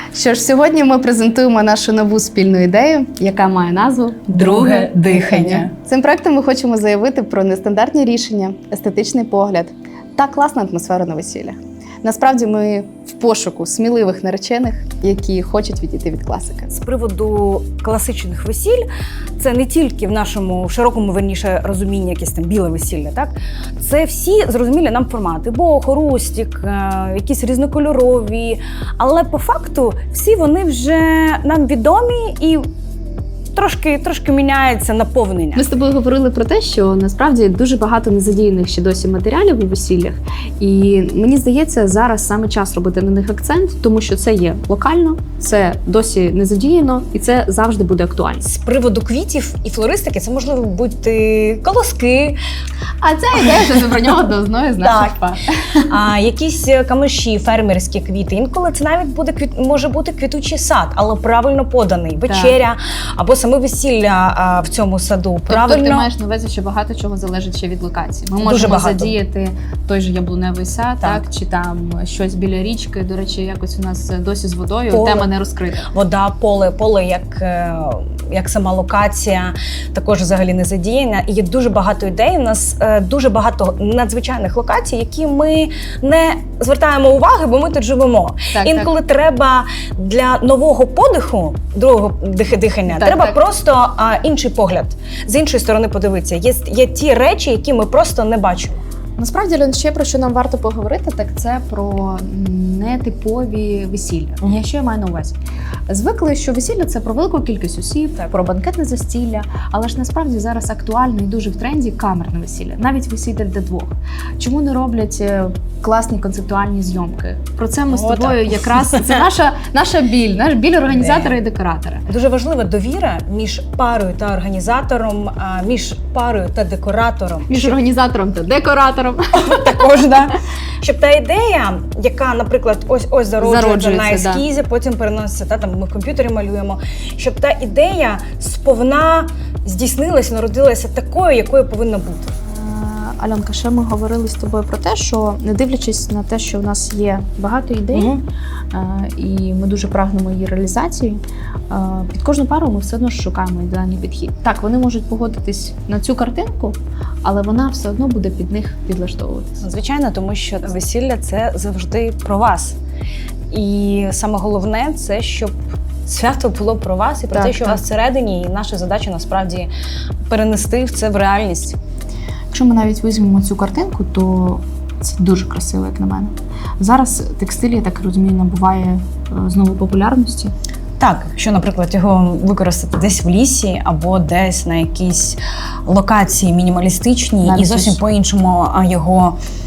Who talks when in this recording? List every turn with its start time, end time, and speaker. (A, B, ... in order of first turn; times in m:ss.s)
0:00.1-0:16.8 A
0:04.3-0:05.7 B
0:16.7-0:18.8 B
0:19.4-0:32.7 B
0:33.5-0:35.6 B
0:35.6-0:48.5 A
0:48.4-0:52.4 B
0:53.0-0:55.9 A
0:54.8-1:06.1 B
1:02.3-1:02.6 A
1:05.5-1:15.9 A
1:08.4-1:09.2 B
1:14.9-1:15.3 B
1:15.9-1:38.8 B
1:28.5-1:28.9 A
1:32.9-1:33.4 A
1:39.2-1:45.4 A
1:45.9-2:02.1 A
1:57.9-1:59.2 B
2:00.9-2:01.4 B
2:02.1-2:07.8 B
2:07.5-2:10.2 A
2:09.3-2:22.3 B
2:13.4-2:14.4 A
2:22.4-2:28.2 A
2:27.9-2:28.2 B
2:28.7-2:39.6 A
2:39.6-2:42.8 B
2:43.5-2:49.7 B
2:47.3-2:47.8 A
2:50.3-2:51.8 B
2:52.5-3:00.5 A
3:01.0-3:09.4 B
3:07.4-3:08.0 A